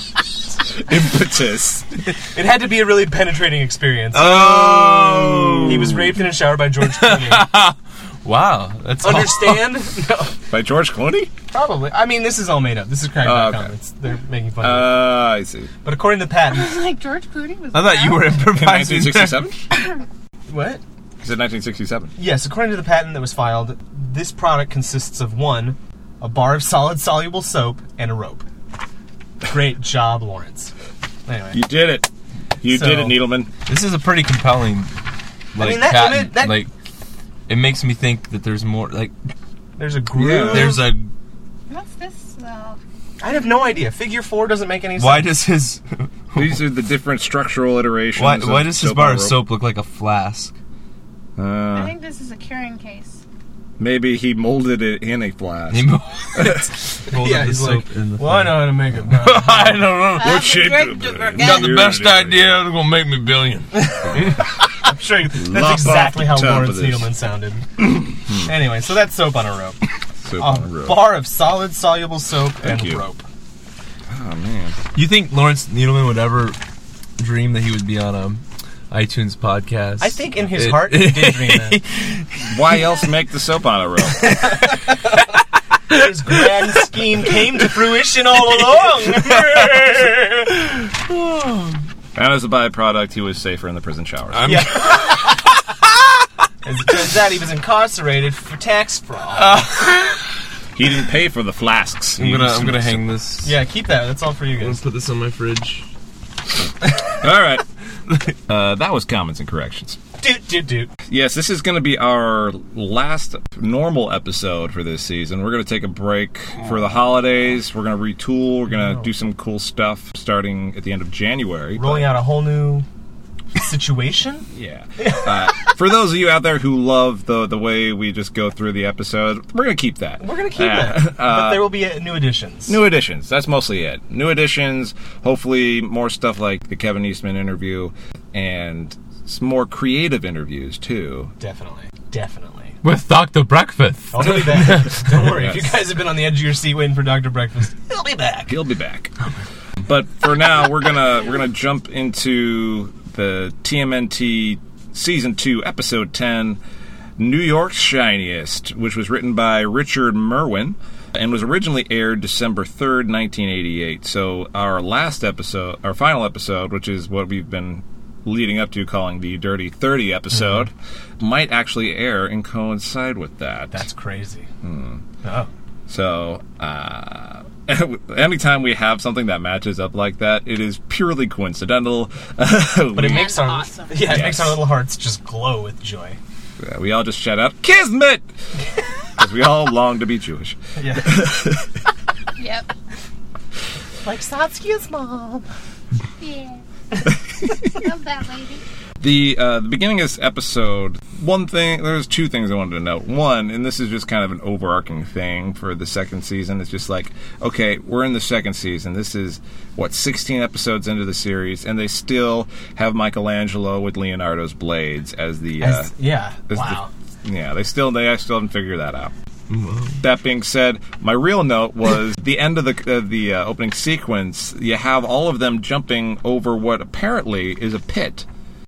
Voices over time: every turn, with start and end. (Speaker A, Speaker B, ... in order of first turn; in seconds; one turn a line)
Speaker A: 0.7-1.9
Speaker B: 2.3-4.6
Speaker C: 4.1-5.9
Speaker A: 4.3-6.2
Speaker B: 5.6-7.5
Speaker C: 6.8-9.7
Speaker B: 9.0-10.4
Speaker A: 10.5-11.3
Speaker B: 11.5-15.2
Speaker A: 13.2-13.7
Speaker A: 14.6-15.7
Speaker B: 15.8-16.8
Speaker D: 16.5-18.4
Speaker C: 17.7-19.5
Speaker A: 18.4-19.6
Speaker B: 20.5-20.8
Speaker A: 21.2-22.2
Speaker B: 22.2-28.5
Speaker B: 29.5-30.7
Speaker B: 31.3-31.6
Speaker A: 31.5-33.5
Speaker B: 32.7-33.2
Speaker C: 33.7-34.9
Speaker C: 35.5-36.7
Speaker B: 35.6-36.6
Speaker C: 37.5-39.1
Speaker B: 39.8-40.9
Speaker A: 40.1-40.9
Speaker C: 40.3-41.1
Speaker D: 41.7-42.8
Speaker B: 43.2-45.4
Speaker D: 43.3-43.8
Speaker C: 45.0-46.6
Speaker A: 46.4-49.5
Speaker C: 48.2-50.5
Speaker A: 51.4-51.9
Speaker D: 51.7-53.2
Speaker A: 53.8-56.6
Speaker C: 55.7-60.5
Speaker B: 57.1-59.9
Speaker D: 60.1-61.8
Speaker A: 60.2-62.6
Speaker C: 61.4-64.4
Speaker B: 63.9-67.7
Speaker A: 64.0-64.4
Speaker A: 65.3-67.1
Speaker A: 67.8-68.5
Speaker B: 68.3-69.8
Speaker A: 70.2-71.1
Speaker B: 70.3-73.3
Speaker A: 72.6-73.0
Speaker A: 74.1-74.8
Speaker C: 74.9-76.6
Speaker C: 77.2-82.6
Speaker B: 80.0-81.8
Speaker A: 82.5-84.5
Speaker B: 84.3-84.9
Speaker B: 85.9-90.5
Speaker C: 89.1-90.1
Speaker C: 90.9-91.8
Speaker A: 92.2-94.6
Speaker C: 94.3-95.2
Speaker B: 94.5-95.4
Speaker B: 96.6-99.7
Speaker C: 99.3-100.2
Speaker A: 100.8-103.1
Speaker C: 102.2-103.6
Speaker B: 103.4-104.8
Speaker C: 104.6-105.9
Speaker A: 107.1-107.7
Speaker A: 108.5-110.0
Speaker B: 110.2-110.9
Speaker A: 111.1-122.1
Speaker B: 121.8-122.9
Speaker B: 123.5-124.5
Speaker A: 124.5-131.8
Speaker B: 125.0-125.7
Speaker B: 130.2-132.8
Speaker A: 132.7-141.3
Speaker B: 141.4-142.8
Speaker C: 142.8-145.2
Speaker B: 144.1-148.5
Speaker A: 145.2-145.8
Speaker A: 148.5-149.1
Speaker A: 149.8-156.6
Speaker A: 157.2-173.9
Speaker B: 173.7-174.5
Speaker A: 174.6-175.0
Speaker B: 175.2-175.5
Speaker A: 175.9-183.4
Speaker B: 182.9-186.2
Speaker D: 183.0-184.3
Speaker A: 184.0-184.7
Speaker A: 186.6-188.3
Speaker A: 189.2-191.7
Speaker B: 190.8-191.3
Speaker D: 192.4-192.7
Speaker B: 194.0-195.5
Speaker D: 196.2-196.6
Speaker D: 197.5-198.6
Speaker A: 199.0-215.9
Speaker B: 215.6-216.9
Speaker A: 216.5-219.1
Speaker C: 219.5-220.0
Speaker A: 220.0-228.3